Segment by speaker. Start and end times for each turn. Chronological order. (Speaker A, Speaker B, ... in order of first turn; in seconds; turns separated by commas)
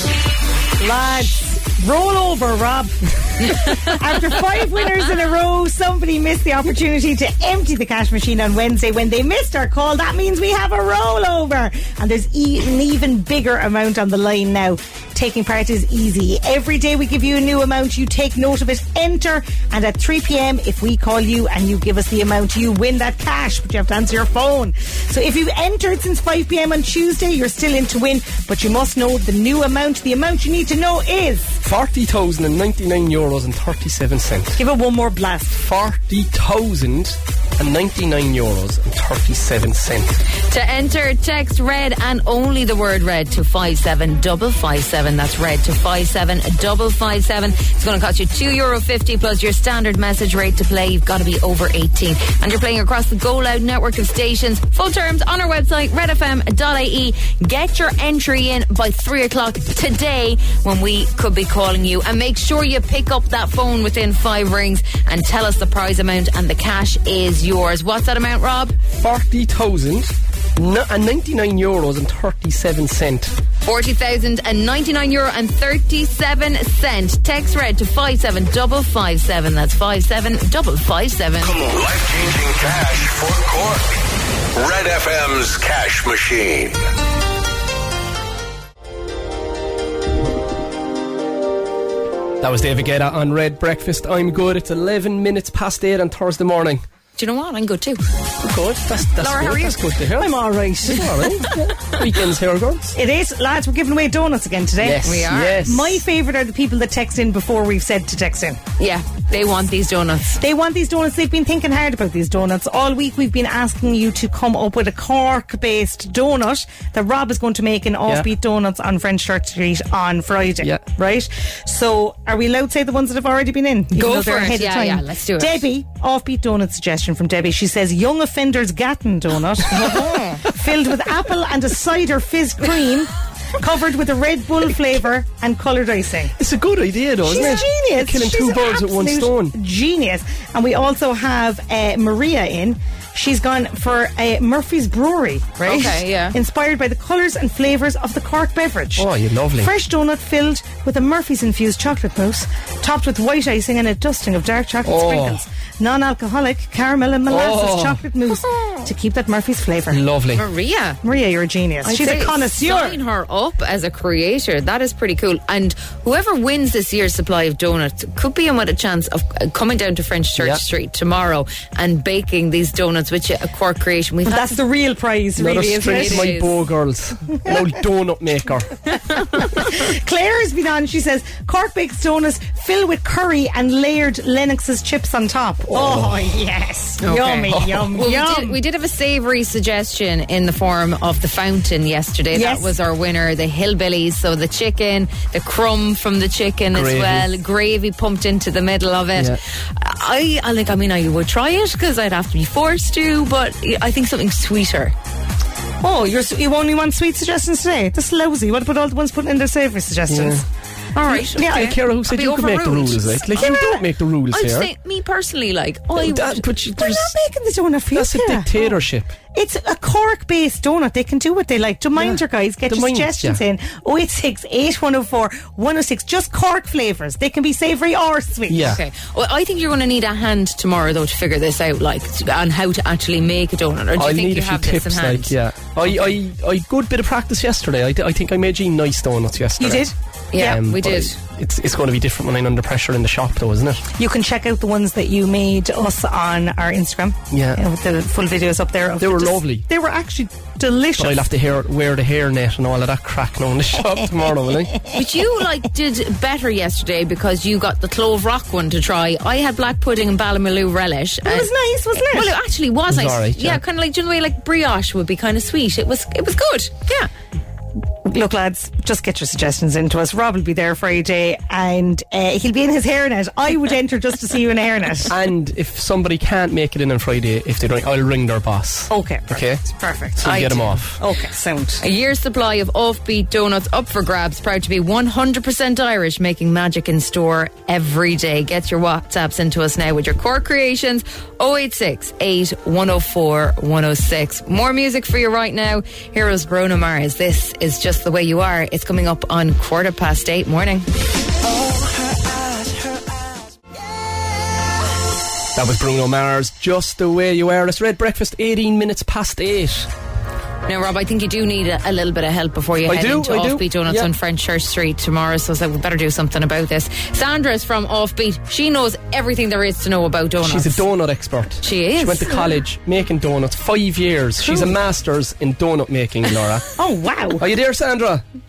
Speaker A: 0.8-31.6, Speaker B: 3.6-3.9, Speaker C: 31.6-34.6, Speaker A: 34.6-35.6, Speaker C: 35.6-40.1, Speaker B: 40.5-68.8, Speaker C: 68.9-73.3, Speaker B: 73.7-81.6, Speaker D: 81.4-84.0, Speaker D: 84.5-86.8, Speaker C: 92.4-96.8, Speaker B: 97.2-98.0, Speaker C: 98.4-102.9, Speaker B: 99.2-99.7, Speaker A: 100.1-101.2, Speaker A: 103.0-108.6, Speaker C: 104.8-106.0, Speaker B: 105.0-105.7, Speaker B: 108.8-110.4, Speaker A: 110.4-136.3, Speaker B: 123.9-125.7, Speaker B: 129.7-130.4, Speaker C: 136.4-139.5, Speaker A: 137.2-160.0, Speaker B: 145.6-146.3, Speaker C: 149.0-149.7, Speaker C: 154.8-155.4, Speaker C: 157.3-158.0, Speaker C: 159.9-160.4, Speaker B: 160.4-161.0, Speaker A: 161.0-163.0, Speaker B: 161.8-174.6, Speaker A: 174.3-176.3, Speaker C: 175.4-178.8, Speaker B: 175.9-176.5, Speaker A: 179.1-188.6, Speaker C: 185.7-186.2, Speaker C: 187.0-187.9, Speaker B: 187.2-187.4, Speaker B: 187.9-204.9, Speaker A: 192.3-192.7, Speaker C: 196.7-197.3, Speaker A: 205.8-210.4, Speaker C: 210.1-210.4, Speaker B: 210.9-213.8, Speaker A: 211.1-211.7, Speaker C: 211.1-214.7, Speaker A: 213.4-213.8, Speaker B: 214.3-216.5, Speaker C: 216.0-217.1, Speaker A: 216.8-218.8, Speaker C: 217.9-219.1, Speaker A: 219.3-228.8, Speaker C: 222.0-223.4, Speaker C: 228.5-228.8, Speaker B: 228.6-235.3, Speaker C: 233.9-239.9, Speaker B: 235.8-236.1, Speaker A: 239.6-240.6, Speaker B: 240.3-241.1, Speaker C: 240.4-243.8, Speaker A: 244.0-251.3, Speaker C: 247.3-247.6, Speaker C: 249.0-249.7, Speaker C: 251.0-254.8, Speaker B: 254.9-267.1, Speaker A: 261.2-262.3, Speaker C: 262.9-263.6, Speaker A: 268.0-275.1, Speaker C: 275.1-279.6, Speaker A: 278.9-281.8, Speaker C: 280.2-281.0, Speaker B: 280.2-280.8, Speaker B: 281.8-300.9, Speaker C: 305.6-309.9, Speaker B: 310.7-320.8, Speaker C: 312.9-314.1, Speaker C: 320.4-326.6, Speaker B: 321.6-322.4, Speaker A: 324.4-324.7, Speaker A: 326.8-327.4, Speaker C: 327.4-328.2